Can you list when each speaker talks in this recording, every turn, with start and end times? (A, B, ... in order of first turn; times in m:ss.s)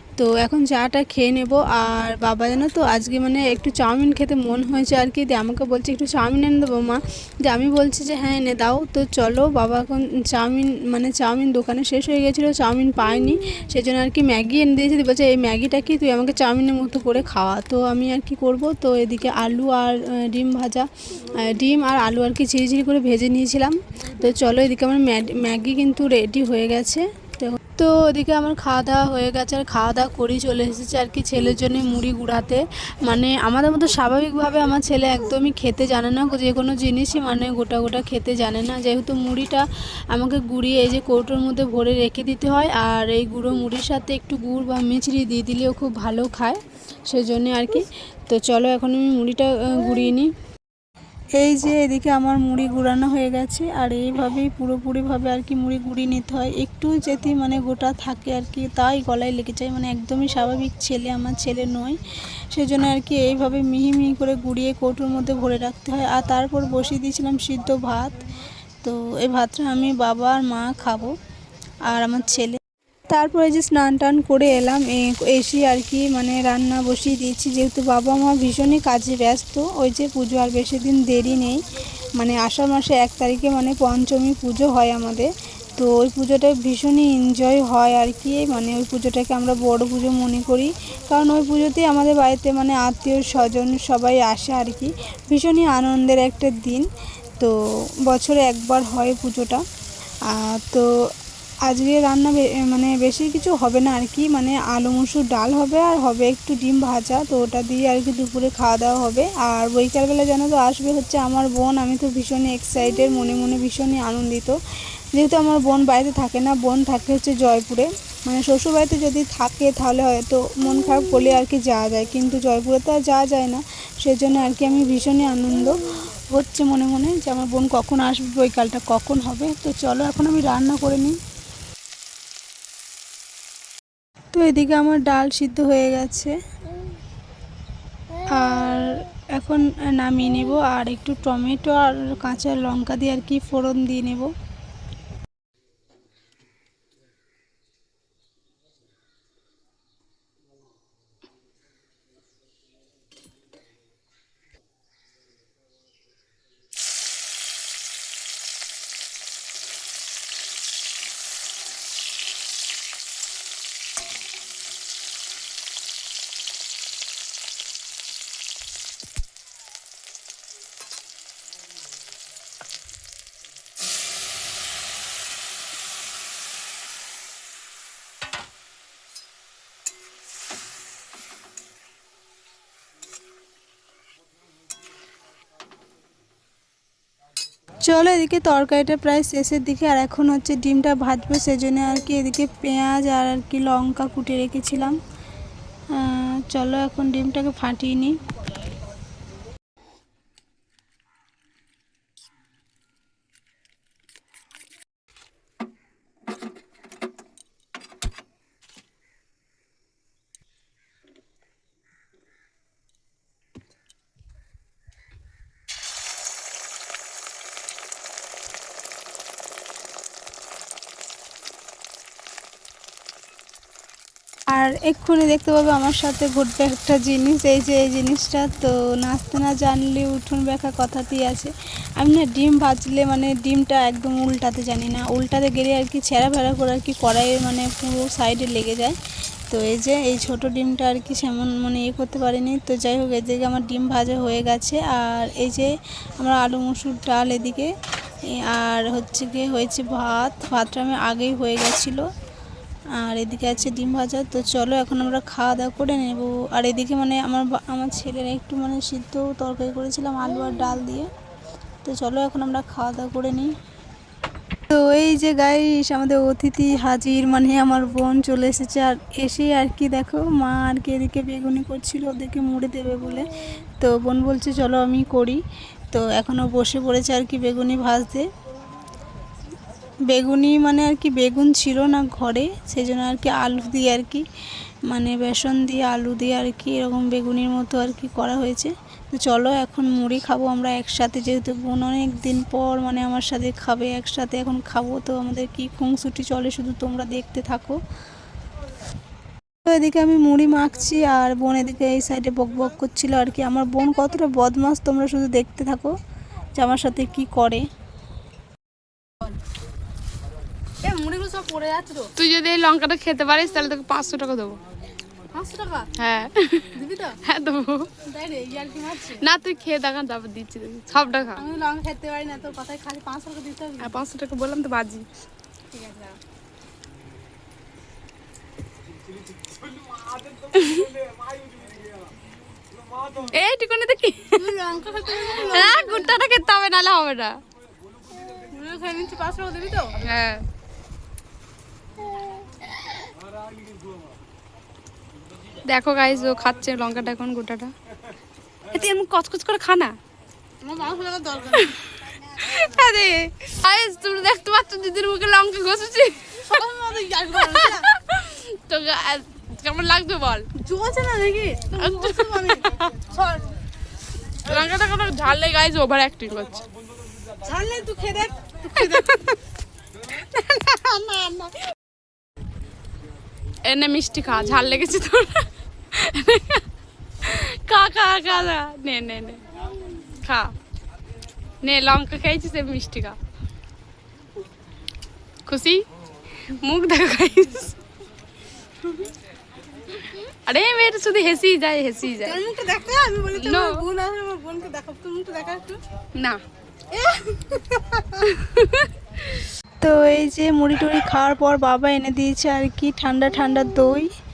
0:00.2-0:50.3 A
0:51.4-1:08.2 A
1:08.8-1:11.1 A
1:11.8-1:39.6 A
1:40.2-1:40.9 A
1:41.6-1:54.6 A
1:55.1-2:11.2 A
2:14.3-2:16.3 A
2:18.3-2:24.3 A
3:07.8-3:15.0 A
3:15.9-3:18.2 A
3:44.5-3:59.0 A
3:59.5-4:07.7 A
4:08.3-4:12.0 A
4:13.0-4:21.1 A
4:21.8-4:23.5 A
4:24.7-4:38.3 A
4:40.1-4:44.2 A
4:44.9-4:57.8 A
4:59.6-5:05.9 A
5:06.5-5:07.7 A
5:10.8-5:12.1 B
5:12.2-5:14.6 C
5:15.3-5:15.9 B
5:16.0-5:17.9 C
5:16.7-5:17.2 B
5:18.0-5:19.2 B
5:19.2-5:21.4 C
5:21.3-5:24.0 B
5:23.8-5:25.0 C
5:25.7-5:26.2 B
5:30.5-5:30.9 C
5:33.2-5:34.5 C
5:34.3-5:36.2 B
5:35.3-5:37.4 C
5:38.3-5:40.0 B
5:40.0-5:40.4 C
5:45.6-5:47.7 C
5:48.6-5:49.9 C
5:50.6-5:51.8 B
5:52.3-5:52.6 B
5:52.4-5:56.6 C
5:56.4-5:57.9 B
5:57.3-6:00.5 C
6:00.5-6:03.4 B
6:01.7-6:02.9 C
6:04.4-6:06.6 C
6:07.4-6:09.3 B
6:08.8-6:09.3 C
6:10.3-6:11.6 B
6:13.6-6:16.6 C
6:17.2-6:19.4 C
6:20.2-6:20.5 C
6:21.6-6:23.2 C
6:25.4-6:25.8 C
6:26.6-6:27.7 C
6:30.0-6:32.4 C
6:32.2-6:35.8 B
6:33.4-6:33.8 C
6:36.1-6:36.4 C
6:36.9-6:38.2 B
6:38.1-6:39.4 C
6:39.8-6:44.1 A